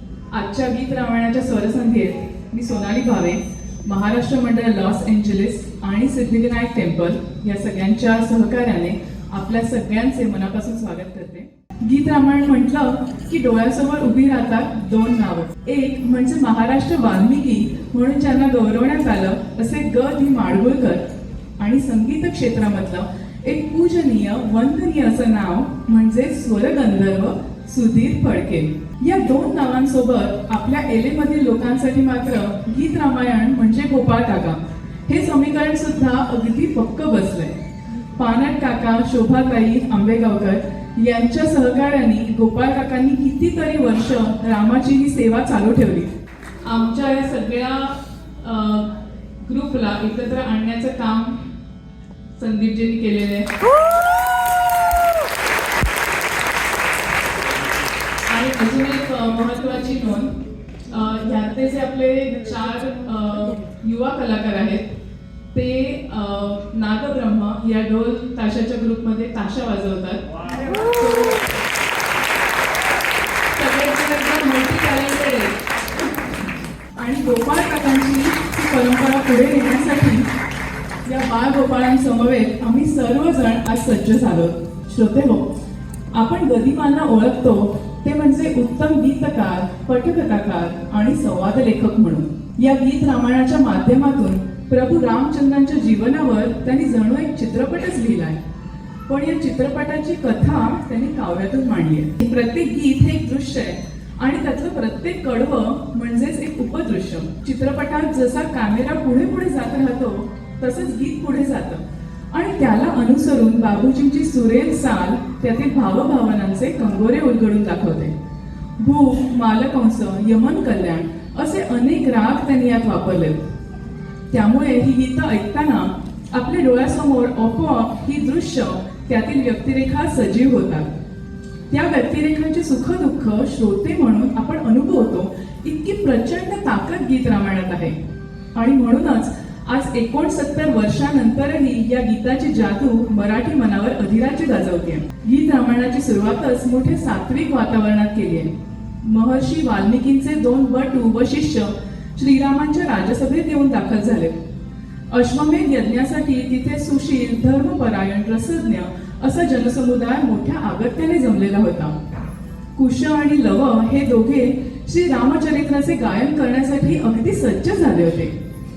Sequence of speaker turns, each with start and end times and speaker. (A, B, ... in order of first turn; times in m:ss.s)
0:00.3-0:21.0 A
0:21.6-0:37.6 A
0:38.2-0:46.1 A
0:46.6-0:51.4 A
0:52.4-0:53.5 A
0:58.3-1:00.4 A
1:00.9-1:04.9 A
1:05.5-1:11.5 A
1:13.6-1:15.6 A
1:17.0-1:20.3 A
1:21.1-1:25.5 A
1:26.1-1:38.4 A
1:39.1-1:58.1 A
1:58.8-2:03.4 A
2:04.3-2:10.9 A
2:11.7-2:18.0 A
2:18.5-2:28.5 A
2:29.0-2:34.4 A
2:35.1-2:42.0 A
2:42.8-2:48.3 A